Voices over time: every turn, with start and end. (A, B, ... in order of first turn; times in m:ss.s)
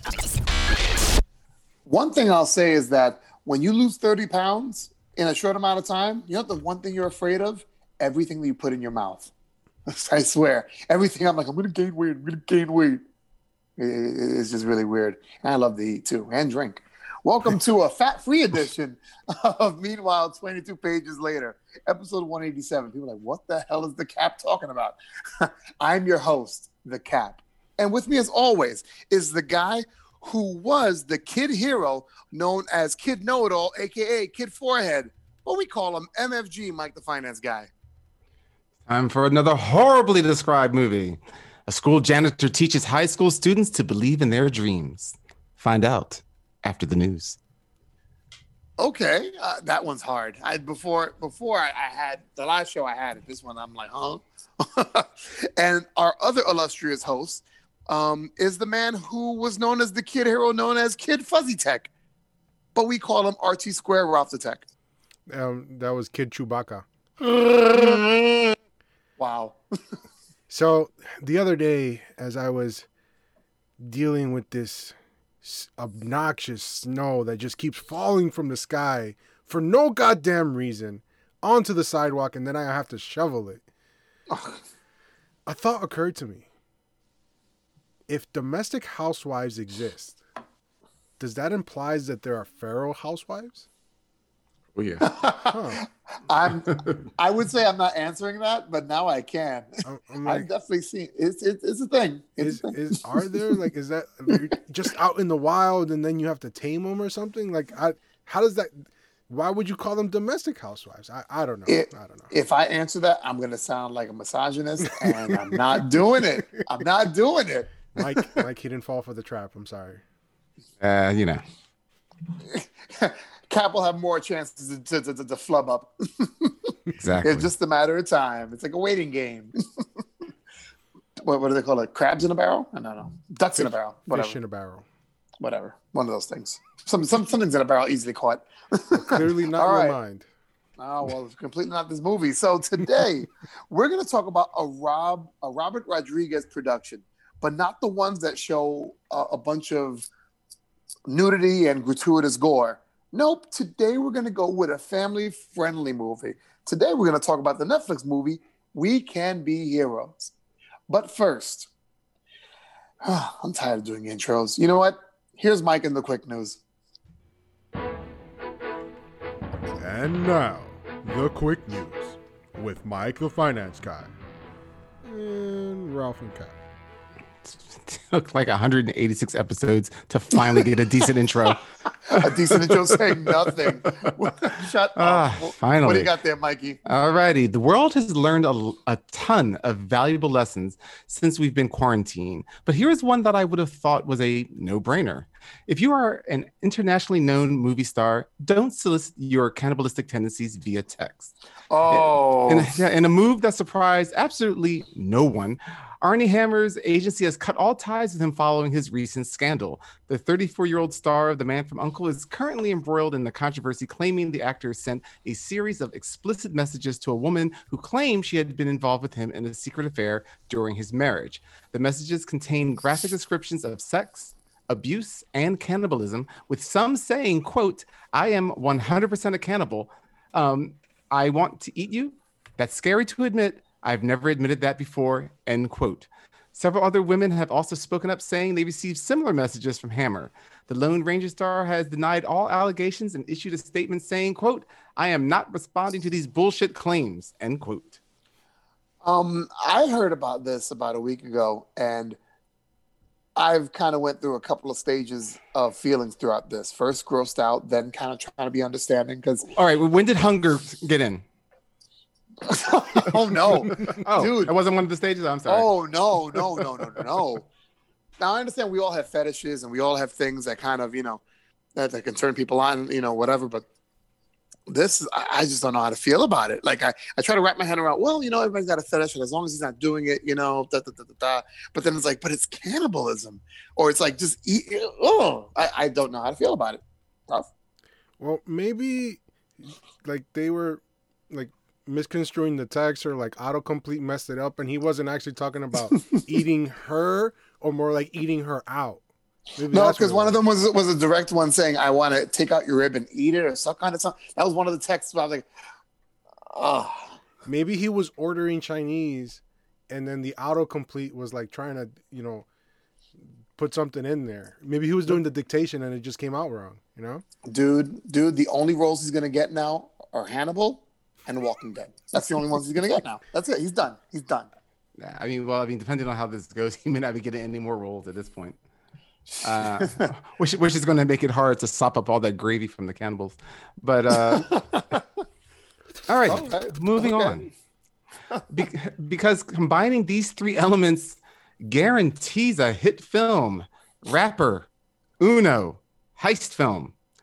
0:01.9-0:09.3 A
0:09.9-0:13.0 A
0:13.8-0:37.7 A
0:38.9-0:47.4 B
0:48.8-1:01.9 A
1:02.8-1:04.7 A
1:05.3-1:06.8 C
1:07.2-1:08.6 A
1:09.2-1:09.6 A
1:10.5-1:12.9 C
1:13.8-1:23.6 C
1:24.3-1:24.6 A
1:25.5-1:26.5 C
1:28.1-1:30.2 C
1:31.2-1:33.7 C
1:34.8-1:35.1 B
1:35.0-1:43.3 A
1:35.5-1:35.8 C
1:36.6-1:37.0 B
1:39.8-1:40.5 C
1:42.4-1:52.3 C
1:51.7-1:57.9 A
1:54.9-1:55.6 C
1:58.0-2:00.0 C
2:00.8-2:01.4 B
2:02.4-2:09.6 A
2:07.0-2:07.5 B
2:11.2-2:14.4 A
2:13.6-2:14.8 C
2:15.4-2:20.0 A
2:19.0-2:20.3 C
2:20.8-2:30.1 A
2:31.1-2:40.3 A
2:40.9-2:41.7 A
2:43.0-2:46.6 A
2:49.8-2:54.1 C
2:55.0-2:56.5 C
2:57.5-3:01.6 B
3:00.4-3:00.7 A
3:02.0-3:06.8 A
3:02.1-3:03.3 B
3:05.0-3:06.1 B
3:06.9-3:21.3 B
3:21.7-3:22.8 A
3:21.9-4:08.0 B
4:09.0-4:12.2 A
4:13.4-4:19.5 A
4:19.5-4:21.2 B
4:22.4-4:24.5 A
4:23.5-4:25.7 B
4:25.5-4:27.5 A
4:28.2-4:31.2 A
4:31.8-4:33.7 A
4:34.7-4:47.5 A
4:48.2-4:59.0 C
4:59.6-5:00.4 C
4:59.7-5:05.5 A
5:06.5-5:07.2 A
5:07.5-5:12.5 C
5:13.6-5:17.2 C
5:17.5-5:24.5 A
5:25.0-5:28.6 B
5:29.3-5:35.0 B
5:29.6-5:30.1 A
5:34.1-5:35.0 A
5:36.1-5:37.5 B
5:36.2-5:37.5 A
5:38.5-5:44.7 B
5:45.2-5:46.9 B